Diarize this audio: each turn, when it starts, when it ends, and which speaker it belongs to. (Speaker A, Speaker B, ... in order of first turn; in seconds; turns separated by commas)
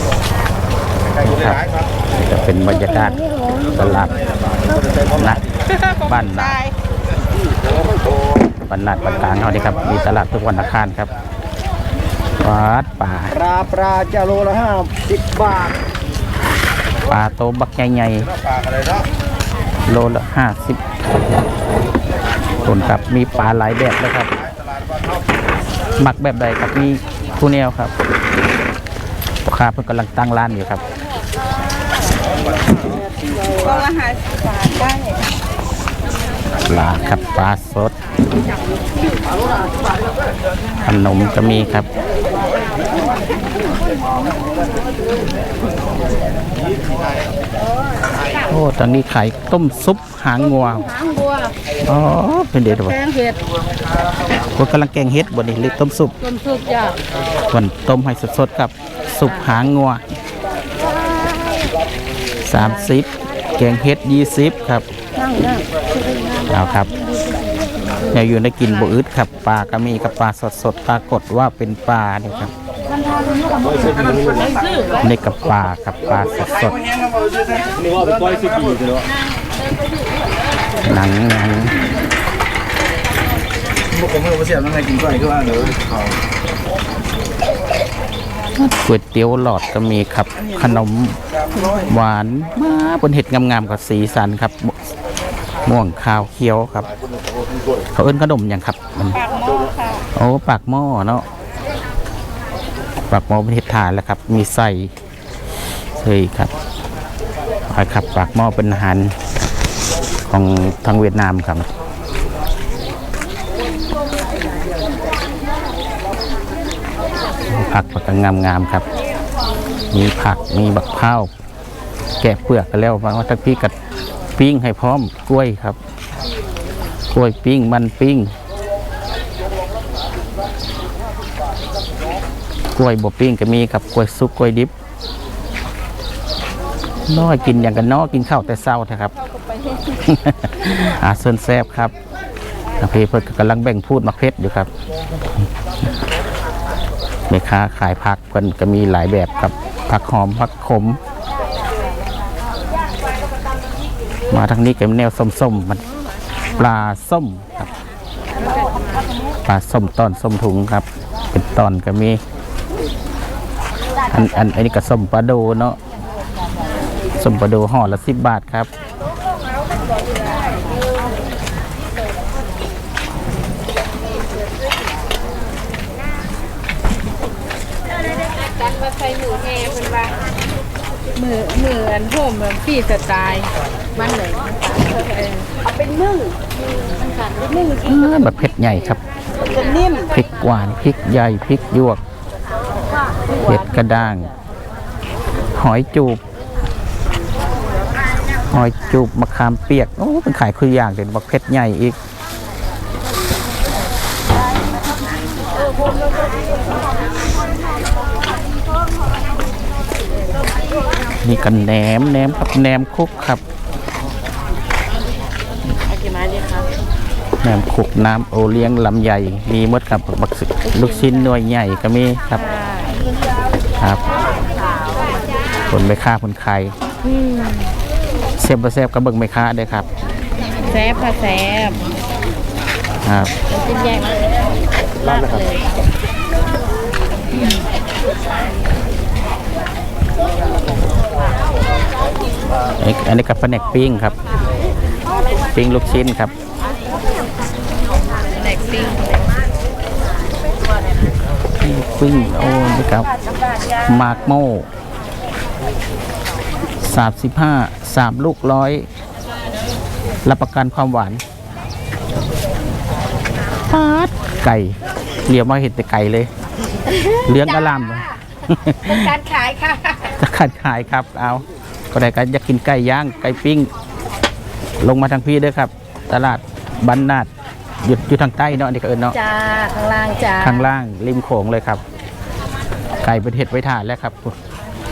Speaker A: 1.2-4.3, Speaker A: 5.1-6.6, Speaker B: 5.9-6.7, Speaker A: 8.7-11.1, Speaker A: 12.4-13.6, Speaker A: 17.1-18.3, Speaker A: 19.9-20.8, Speaker A: 22.6-24.3, Speaker A: 26.0-27.9, Speaker A: 29.4-30.8, Speaker B: 33.5-35.2, Speaker A: 36.6-37.9, Speaker A: 40.8-41.9, Speaker A: 48.5-50.9, Speaker B: 50.6-51.5, Speaker A: 51.8-53.0, Speaker B: 52.8-53.4, Speaker A: 54.5-56.1, Speaker B: 56.2-57.0, Speaker A: 57.5-60.0, Speaker B: 61.1-61.6, Speaker A: 62.4-64.8, Speaker B: 62.5-62.9, Speaker B: 65.2-67.2, Speaker A: 66.5-66.9, Speaker A: 68.1-72.5, Speaker B: 72.8-75.0, Speaker A: 75.0-76.9, Speaker C: 78.2-78.9, Speaker A: 80.8-81.8, Speaker C: 84.2-85.7, Speaker A: 88.5-91.2, Speaker A: 91.7-94.8, Speaker A: 95.6-96.9, Speaker A: 97.9-99.2, Speaker B: 99.2-100.0, Speaker A: 100.1-101.2, Speaker A: 103.1-104.9, Speaker A: 106.0-106.5, Speaker A: 107.7-109.1, Speaker A: 110.3-111.7, Speaker A: 117.5-118.8, Speaker A: 119.9-121.3, Speaker A: 122.2-123.7, Speaker A: 124.3-125.8, Speaker A: 127.1-128.3, Speaker A: 132.7-134.7, Speaker A: 137.1-139.1, Speaker A: 139.9-141.9, Speaker A: 142.8-144.7, Speaker A: 147.3-151.0, Speaker A: 154.3-155.8, Speaker A: 156.5-157.7, Speaker A: 159.4-162.2, Speaker A: 164.1-165.8, Speaker A: 167.2-168.7, Speaker B: 178.6-180.1, Speaker B: 181.1-186.4, Speaker B: 187.0-187.8, Speaker A: 187.8-189.0, Speaker B: 189.4-190.1, Speaker A: 190.1-192.0, Speaker A: 193.4-194.3, Speaker A: 195.5-196.2, Speaker A: 198.5-202.0, Speaker A: 211.2-213.4, Speaker B: 215.9-216.7, Speaker A: 217.4-222.4, Speaker B: 222.3-223.0, Speaker A: 225.7-226.7, Speaker B: 227.0-227.7, Speaker A: 228.4-229.9, Speaker B: 230.6-231.9, Speaker A: 233.0-233.3, Speaker B: 233.5-234.3, Speaker B: 235.0-235.7, Speaker A: 242.8-244.1, Speaker A: 245.5-246.3, Speaker B: 248.3-249.2, Speaker A: 251.6-253.1, Speaker A: 253.8-254.7, Speaker A: 256.8-258.9, Speaker A: 260.2-261.2, Speaker A: 263.7-266.3, Speaker B: 266.9-267.8, Speaker A: 267.2-269.1, Speaker B: 268.9-270.1, Speaker A: 270.2-273.7, Speaker A: 274.8-277.3, Speaker A: 277.8-279.2, Speaker B: 279.1-280.6, Speaker A: 280.4-281.8, Speaker A: 283.0-284.4